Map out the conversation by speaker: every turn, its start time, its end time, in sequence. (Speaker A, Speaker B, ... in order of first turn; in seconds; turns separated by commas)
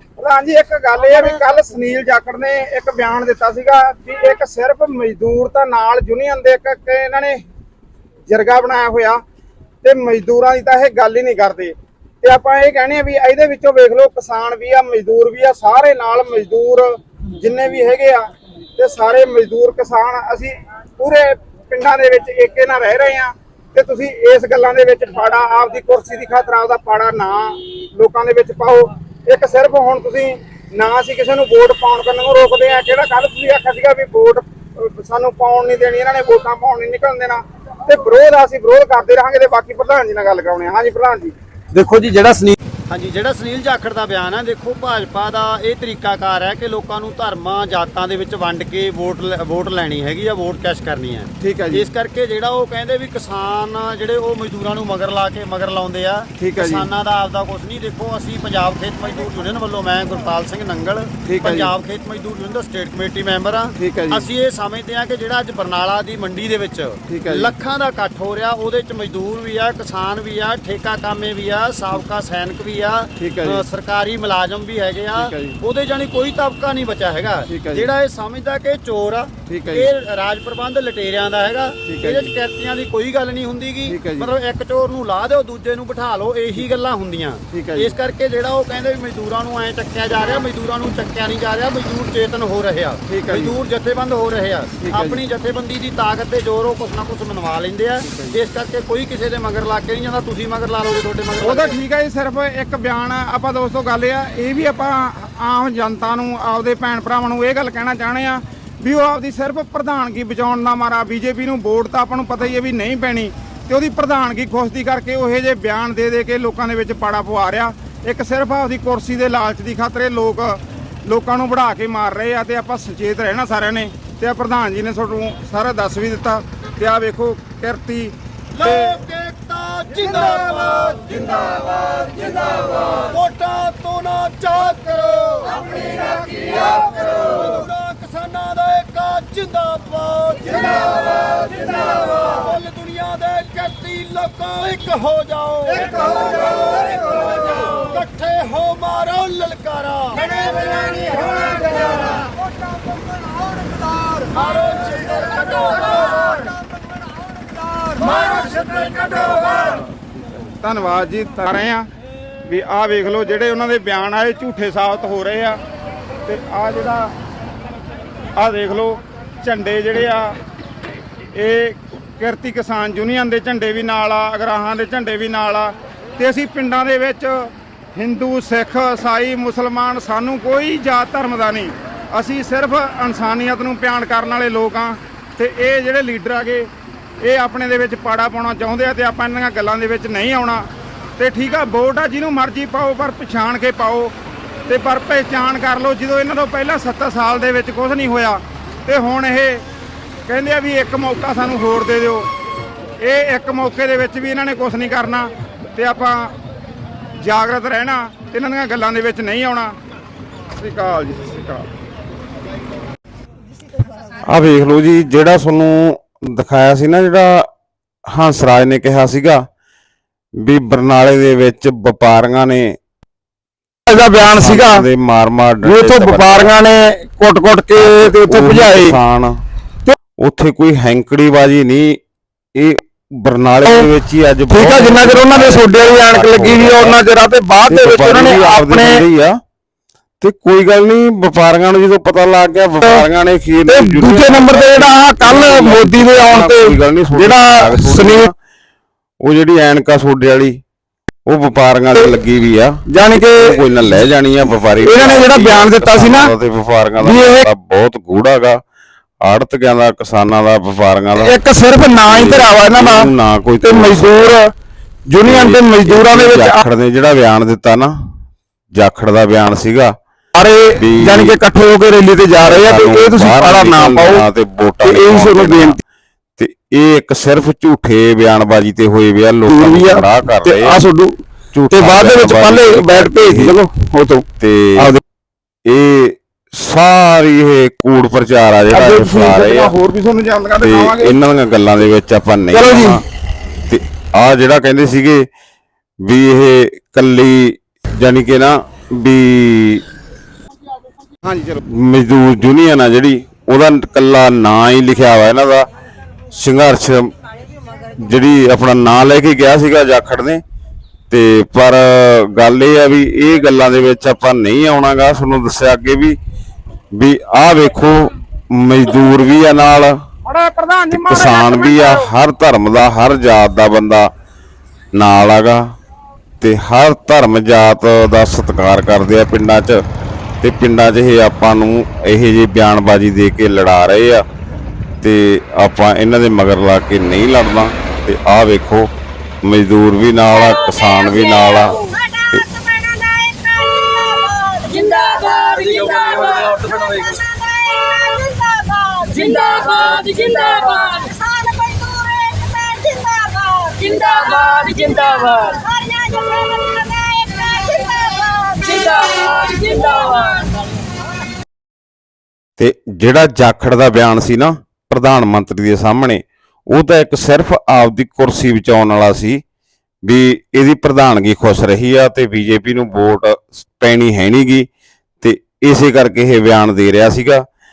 Speaker A: 0.2-7.4, Speaker A: 8.3-9.2, Speaker A: 9.8-41.3, Speaker B: 41.7-101.8, Speaker A: 51.4-51.8, Speaker A: 56.4-56.8, Speaker A: 61.2-61.6, Speaker A: 101.4-128.9, Speaker B: 128.5-152.2, Speaker B: 154.3-156.5, Speaker B: 157.9-159.8, Speaker A: 160.6-161.8, Speaker A: 162.4-165.6, Speaker A: 166.2-167.1, Speaker A: 168.3-170.4, Speaker A: 171.3-186.7, Speaker A: 187.2-190.7, Speaker A: 191.2-194.1, Speaker A: 194.7-199.6, Speaker A: 200.2-202.3, Speaker A: 203.0-206.3, Speaker A: 207.2-209.8, Speaker A: 210.5-211.7, Speaker C: 214.2-217.4, Speaker C: 218.1-219.4, Speaker C: 220.4-222.7, Speaker D: 223.9-224.8, Speaker C: 224.2-226.6, Speaker D: 225.6-229.0, Speaker C: 227.8-229.4, Speaker C: 230.2-232.0, Speaker C: 232.6-237.0, Speaker D: 234.5-239.0, Speaker C: 237.7-239.3, Speaker C: 240.2-248.3, Speaker D: 243.7-248.3, Speaker C: 249.2-250.6, Speaker C: 251.2-252.7, Speaker D: 252.9-253.6, Speaker C: 253.3-258.6, Speaker D: 254.7-256.3, Speaker D: 257.0-257.4, Speaker C: 259.2-261.4, Speaker D: 261.2-263.1, Speaker C: 262.1-264.3, Speaker D: 263.6-264.5, Speaker D: 265.1-266.6, Speaker C: 265.2-267.9, Speaker C: 268.8-269.9, Speaker D: 270.3-274.2, Speaker C: 270.8-271.4, Speaker C: 272.4-275.8, Speaker D: 274.8-275.8, Speaker C: 276.4-280.8, Speaker D: 279.5-281.2, Speaker C: 281.5-283.6, Speaker D: 281.7-284.2, Speaker C: 284.4-285.0, Speaker C: 285.7-289.7, Speaker A: 288.7-291.1, Speaker C: 290.6-293.0, Speaker D: 292.5-293.0, Speaker C: 293.7-295.2, Speaker C: 296.0-299.8, Speaker A: 301.2-301.6, Speaker C: 301.6-305.6, Speaker C: 306.3-307.1, Speaker C: 307.7-310.4, Speaker C: 311.1-316.1, Speaker C: 316.9-320.0, Speaker A: 320.2-322.1, Speaker C: 320.9-324.1, Speaker C: 324.9-325.6, Speaker C: 326.4-329.8, Speaker C: 330.4-334.2, Speaker C: 335.0-338.9, Speaker C: 339.4-341.9, Speaker D: 341.4-344.7, Speaker E: 343.8-347.4, Speaker D: 346.1-349.1, Speaker E: 348.6-351.2, Speaker D: 350.8-353.8, Speaker E: 353.7-355.7, Speaker D: 355.6-359.4, Speaker E: 358.5-360.4, Speaker D: 360.4-360.7, Speaker C: 362.6-369.4, Speaker C: 370.0-374.7, Speaker C: 375.2-377.4